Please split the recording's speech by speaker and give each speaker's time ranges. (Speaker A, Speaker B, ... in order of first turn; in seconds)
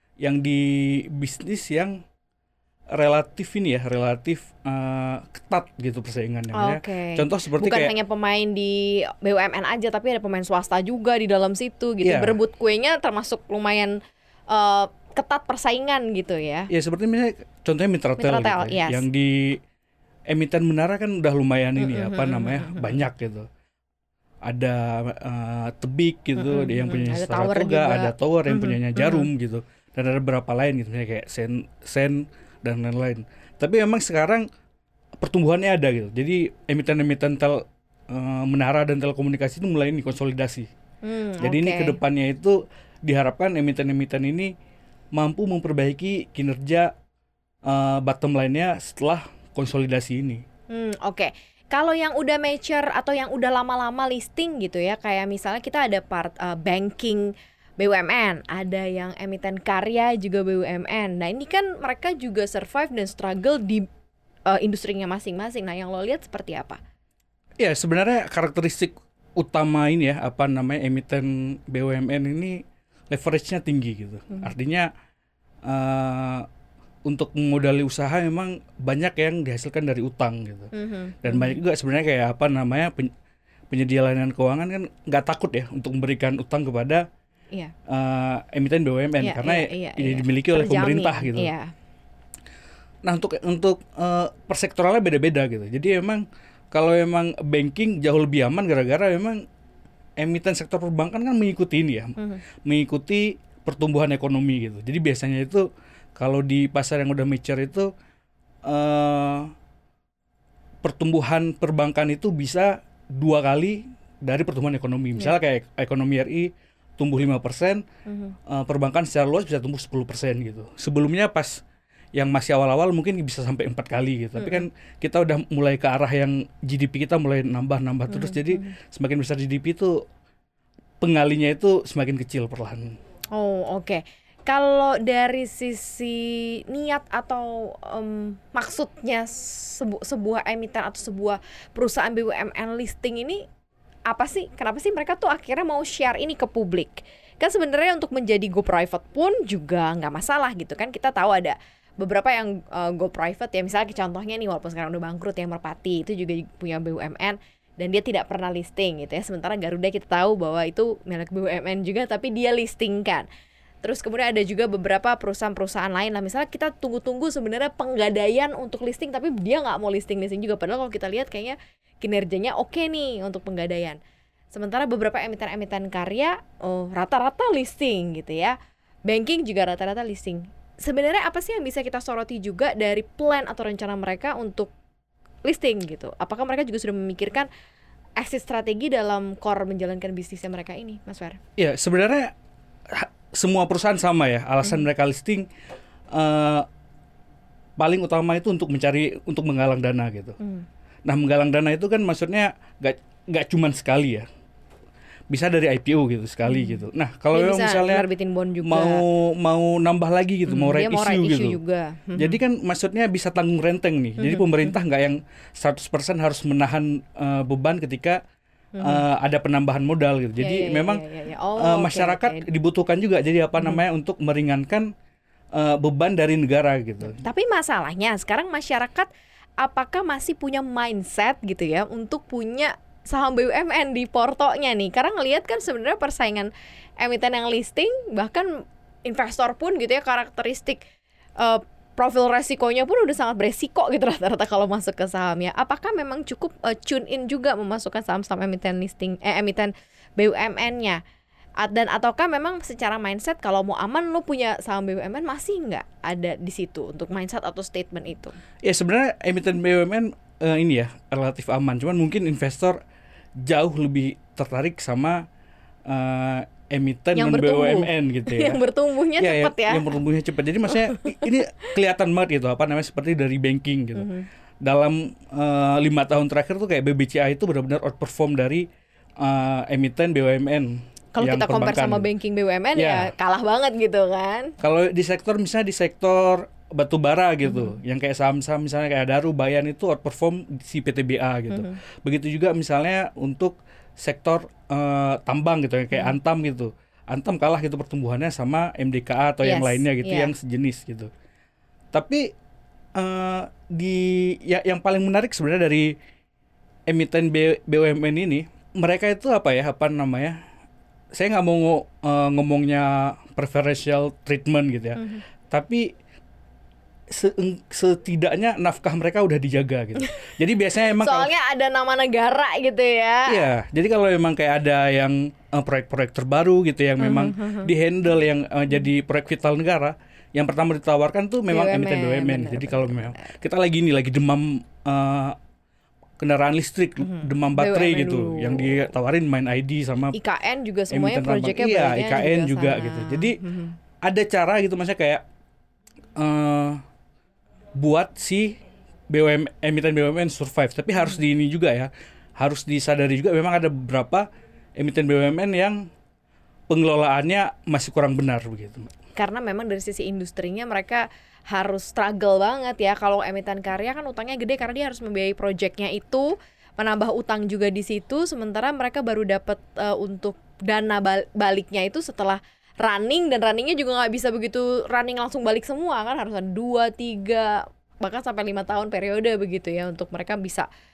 Speaker A: 0.2-2.0, 2.9-7.9, 12.0-12.4, 16.7-19.6, 20.3-23.4, 24.4-34.4, 35.2-40.7, 41.4-44.5, 45.1-46.9, 47.7-50.4, 67.6-72.6, 73.1-74.9, 75.7-76.5, 77.1-83.1, 83.7-87.0, 87.9-91.5, 93.0-99.4, 100.2-105.6, 106.2-107.9, 108.7-109.5, 110.8-117.8, 118.5-121.6, 122.2-129.9, 131.0-133.0, 191.6-192.3, 192.9-195.5, 196.1-196.7, 197.8-200.4, 201.1-204.3, 205.3-208.1, 208.6-211.6, 212.2-218.2, 218.8-221.0, 221.6-224.9, 225.5-227.2, 258.6-262.8, 263.4-265.2, 265.9-268.6, 269.2-274.1, 274.6-278.7, 279.2-282.1, 282.8-283.1, 284.6-301.1, 301.9-302.2, 302.9-305.9, 306.9-310.4, 311.1-315.9, 317.1-321.3, 323.2-335.4, 336.2-340.2, 340.9-343.4, 344.0-345.2, 346.2-346.8, 347.8-348.6, 349.1-354.2, 354.8-355.9, 356.7-358.9
Speaker B: 6.5-14.0, 14.5-16.7, 18.2-19.1, 21.8-23.0, 26.4-29.3, 41.0-42.0, 50.7-63.9, 64.5-66.8, 80.7-81.6, 89.2-91.7, 118.1-118.4, 124.4-124.6, 128.1-128.7, 133.3-143.5, 144.1-163.2, 163.8-174.0, 174.5-184.7, 185.4-187.5, 188.2-191.4, 200.4-200.7, 206.5-209.0, 210.5-212.4, 214.2-214.8, 218.8-219.0, 220.4-222.5, 227.0-229.1, 229.6-240.8, 241.4-251.0, 251.6-258.4, 267.1-269.9, 270.7-271.3, 273.9-274.3, 281.1-284.5, 287.4-287.8, 291.5-291.8, 295.9-296.2, 299.4-300.3, 315.0-315.2, 320.8-323.5, 327.0-327.7, 331.5-333.3, 337.0-338.9, 340.1-343.8, 359.1-380.7